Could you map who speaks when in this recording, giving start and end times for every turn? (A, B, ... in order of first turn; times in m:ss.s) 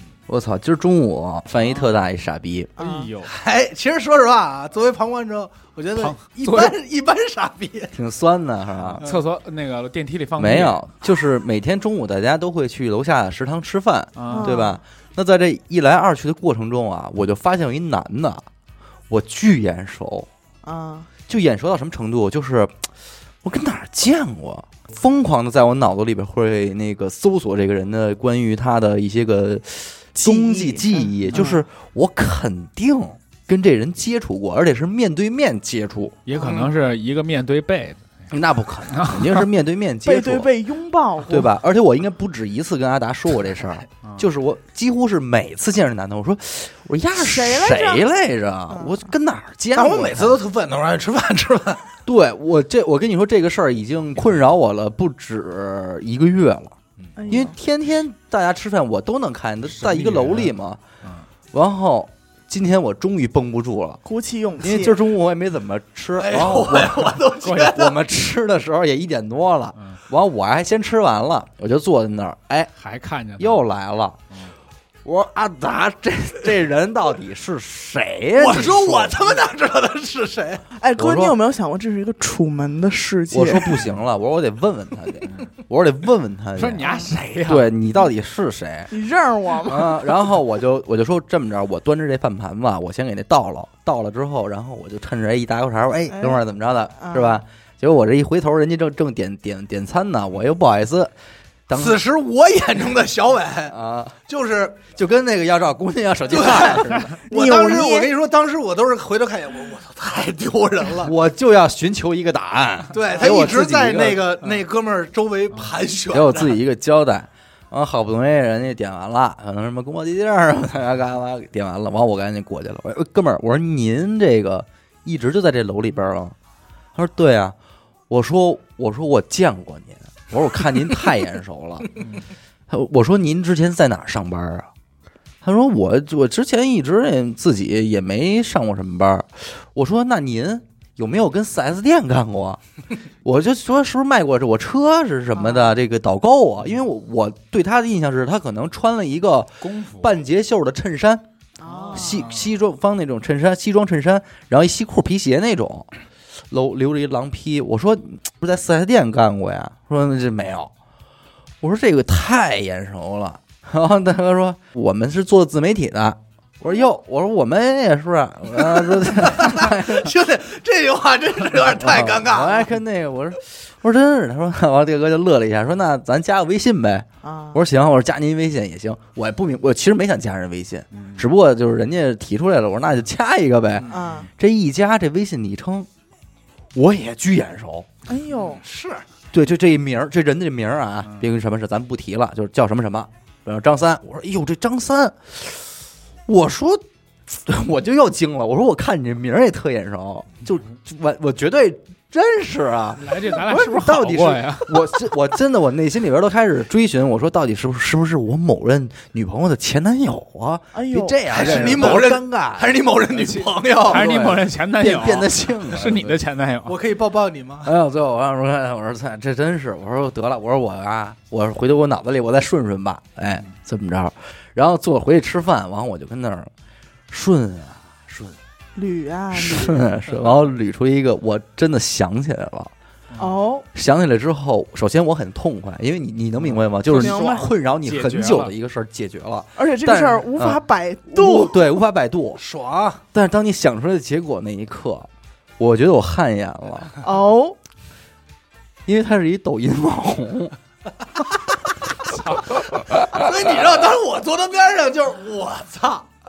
0:00.3-0:02.7 A
0:02.8-0:03.1 B
0:02.8-0:03.3 C
0:03.2-0:07.9 D
0:06.0-0:06.8 C
0:07.9-0:09.0 A
0:09.0-0:10.8 C
0:10.4-0:18.5 A
0:14.2-0:14.6 C
0:14.3-0:14.8 B
0:19.1-0:20.3 A
0:20.6-0:21.1 B
0:21.3-0:22.9 A
0:23.4-0:36.2 A
0:30.2-0:31.5 B
0:31.3-0:31.5 C
0:36.3-0:38.1 C
0:36.4-0:36.7 D
0:38.3-0:40.5 A
0:38.9-0:39.4 C
0:40.0-0:41.5 B
0:41.3-0:50.4 A
0:47.2-0:48.0 B
0:48.7-0:49.0 B
0:49.7-0:51.9 D
0:52.0-0:56.8 A
0:57.2-0:57.5 B
0:57.3-1:00.8 A
0:59.8-1:00.5 C
1:01.5-1:04.0 A
1:04.0-1:05.0 B
1:04.6-1:12.7 A
1:06.2-1:08.0 D
1:12.8-1:13.6 C
1:13.4-1:14.2 A
1:15.0-1:19.4 A
1:18.4-1:20.7 D
1:20.8-1:23.8 B
1:21.0-1:21.4 A
1:23.3-1:26.9 A
1:26.6-1:27.7 C
1:26.8-1:27.1 B
1:27.4-1:28.9 A
1:28.9-1:30.2 B
1:29.6-1:41.1 A
1:36.1-1:36.4 B
1:37.0-1:37.4 B
1:41.7-1:42.0 A
1:41.7-1:43.8 D
1:43.7-1:44.2 A
1:44.3-1:44.9 D
1:44.9-1:47.2 A
1:46.3-1:51.1 D
1:47.3-1:48.1 B
1:51.0-1:54.4 A
1:52.9-1:56.6 D
1:56.1-2:06.4 A
2:07.0-2:07.6 A
2:08.1-2:11.9 A
2:12.7-2:14.7 A
2:15.4-2:22.6 A
2:23.2-2:31.2 A
2:25.3-2:25.7 B
2:29.6-2:30.1 C
2:31.6-2:32.3 B
2:31.9-2:35.9 A
2:36.5-2:40.7 A
2:41.6-2:50.1 A
2:48.6-2:52.6 D
2:51.8-3:05.9 A
2:57.2-2:57.6 B
3:00.9-3:01.2 C
3:03.9-3:04.3 B
3:06.7-3:07.9 A
3:08.0-3:08.6 B
3:08.6-3:09.0 D
3:09.3-3:15.7 A
3:16.3-3:32.8 A
3:23.0-3:25.0 C
3:30.7-3:31.2 B
3:31.3-3:34.2 D
3:31.3-3:32.0 C
3:33.1-3:36.8 C
3:33.9-3:36.2 A
3:36.6-3:37.7 D
3:37.6-3:46.5 A
3:47.1-3:48.4 A
3:48.8-3:49.9 B
3:49.3-3:52.7 A
3:53.2-3:53.6 B
3:53.7-4:02.4 A
3:56.5-3:57.3 C
3:56.9-3:57.5 B
3:57.8-3:58.5 C
3:59.6-4:01.6 B
4:02.4-4:03.0 D
4:03.1-4:05.1 A
4:05.6-4:06.9 A
4:07.0-4:07.6 B
4:08.8-4:10.5 A
4:11.1-4:11.7 A
4:12.1-4:12.6 C
4:12.6-4:13.3 A
4:13.0-4:16.1 D